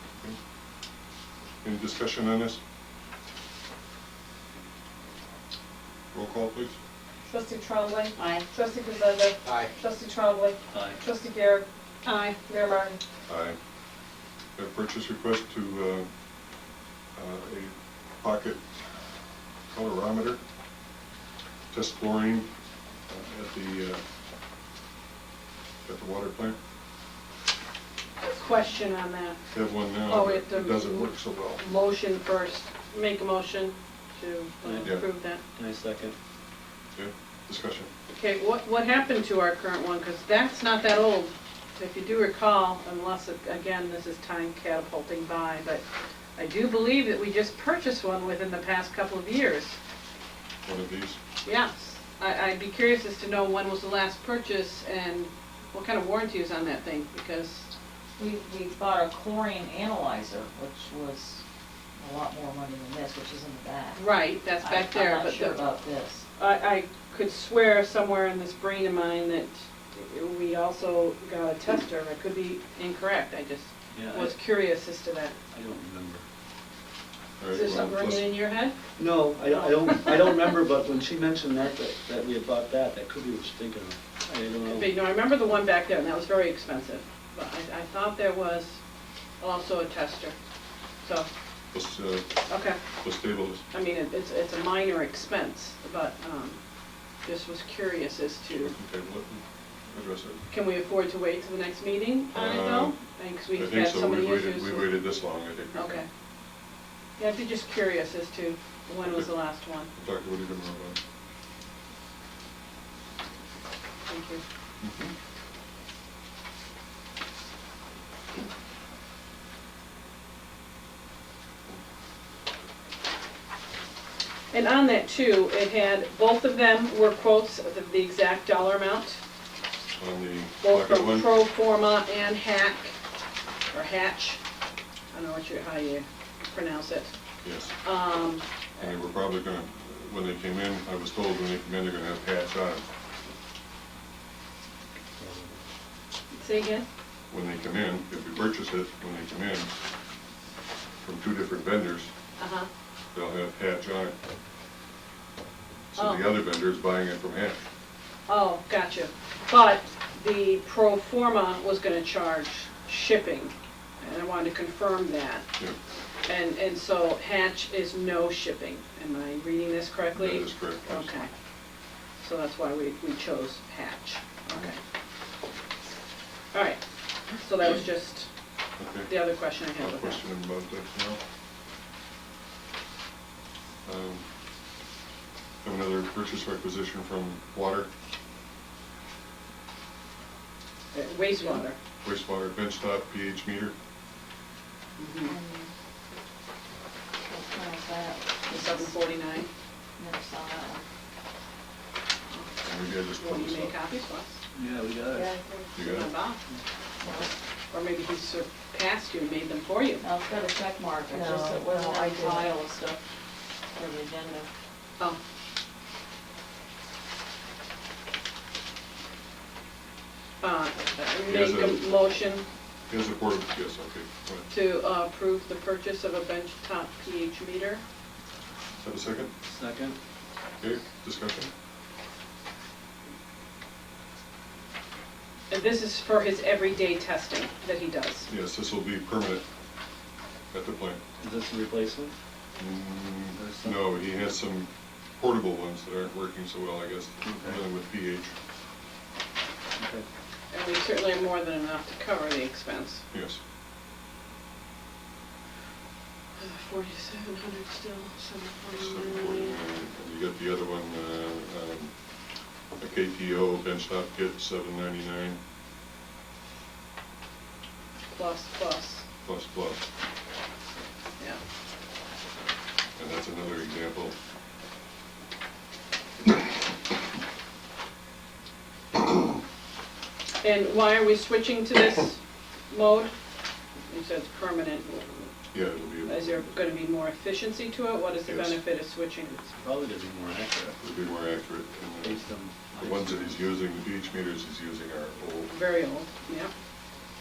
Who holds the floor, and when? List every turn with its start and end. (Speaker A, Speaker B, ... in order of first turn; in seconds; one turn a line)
Speaker A: 1.6-2.6
Speaker A: 6.1-6.8
Speaker B: 7.3-11.7
Speaker C: 8.2-8.4
Speaker D: 10.7-11.0
Speaker E: 12.1-12.4
Speaker B: 12.4-13.0
Speaker A: 13.3-13.6
Speaker A: 14.6-16.1
Speaker A: 17.1-18.6
Speaker A: 19.7-20.4
Speaker A: 21.7-22.5
Speaker A: 23.1-24.0
Speaker A: 25.9-26.6
Speaker E: 28.2-35.4
Speaker A: 29.5-31.7
Speaker D: 34.6-35.0
Speaker D: 35.5-36.2
Speaker A: 37.0-37.9
Speaker E: 38.1-45.8
Speaker E: 46.4-49.8
Speaker A: 50.6-51.2
Speaker E: 51.4-57.7
Speaker C: 58.2-61.4
Speaker C: 62.0-64.0
Speaker E: 64.0-65.6
Speaker C: 64.6-66.2
Speaker E: 66.4-75.3
Speaker D: 73.9-74.4
Speaker D: 75.5-76.2
Speaker A: 77.4-78.3
Speaker E: 77.5-78.8
Speaker D: 79.0-85.0
Speaker E: 79.5-80.1
Speaker E: 84.7-88.8
Speaker E: 89.4-90.3
Speaker E: 91.0-91.3
Speaker A: 91.7-92.3
Speaker E: 92.5-92.8
Speaker A: 93.0-93.6
Speaker E: 93.7-96.6
Speaker E: 97.2-98.7
Speaker A: 98.5-100.4
Speaker E: 100.5-105.0
Speaker A: 102.3-103.0
Speaker A: 103.5-106.0
Speaker E: 105.7-106.1
Speaker E: 107.2-109.9
Speaker A: 109.0-111.0
Speaker E: 114.1-114.4
Speaker A: 114.8-115.1
Speaker E: 124.5-129.2
Speaker A: 130.0-131.3
Speaker E: 130.6-132.9
Speaker E: 133.7-134.4
Speaker E: 135.1-137.1
Speaker A: 137.4-137.7
Speaker E: 137.7-138.9
Speaker A: 138.8-142.9
Speaker D: 145.2-145.6
Speaker E: 146.3-146.9
Speaker A: 147.3-149.7
Speaker A: 151.0-152.1
Speaker E: 152.4-152.7
Speaker A: 153.1-154.2
Speaker A: 155.9-157.6
Speaker E: 156.0-156.3
Speaker E: 158.3-165.5
Speaker E: 166.3-171.3
Speaker A: 170.1-171.2
Speaker E: 172.2-174.8
Speaker E: 176.5-176.8
Speaker E: 177.3-178.3
Speaker A: 178.8-181.2
Speaker E: 179.0-180.2
Speaker A: 183.8-184.2
Speaker A: 185.6-187.9
Speaker E: 190.9-191.8
Speaker A: 192.0-193.7
Speaker E: 195.0-195.4
Speaker C: 195.2-195.7
Speaker C: 197.2-198.9
Speaker E: 198.5-199.5
Speaker C: 200.0-200.8
Speaker E: 202.3-204.4
Speaker A: 202.6-203.8
Speaker D: 204.5-205.3
Speaker B: 205.2-205.5
Speaker A: 205.7-206.2
Speaker E: 205.8-206.4
Speaker C: 207.0-207.3
Speaker E: 207.7-210.0
Speaker C: 210.0-213.0
Speaker B: 211.1-212.6
Speaker C: 213.7-214.5
Speaker E: 220.4-222.4
Speaker A: 221.2-221.9
Speaker A: 222.9-224.5
Speaker E: 224.5-227.8
Speaker A: 228.8-229.3
Speaker D: 229.5-230.0
Speaker A: 230.6-231.5
Speaker E: 235.5-238.3
Speaker A: 238.3-239.4
Speaker A: 240.5-241.0
Speaker D: 241.2-242.2
Speaker A: 242.6-248.3
Speaker D: 243.3-243.8
Speaker D: 247.2-247.6
Speaker D: 249.8-250.1
Speaker E: 250.5-253.0
Speaker A: 253.1-253.4
Speaker E: 256.4-259.6
Speaker A: 258.7-261.9
Speaker A: 262.8-265.4
Speaker E: 268.1-269.1
Speaker A: 269.2-269.8
Speaker A: 273.0-274.1
Speaker E: 280.4-283.1
Speaker E: 283.9-285.3
Speaker A: 285.5-286.5
Speaker E: 286.0-289.4
Speaker A: 288.2-288.6
Speaker D: 289.4-290.8
Speaker A: 290.7-295.6
Speaker D: 292.0-293.4
Speaker E: 295.5-296.5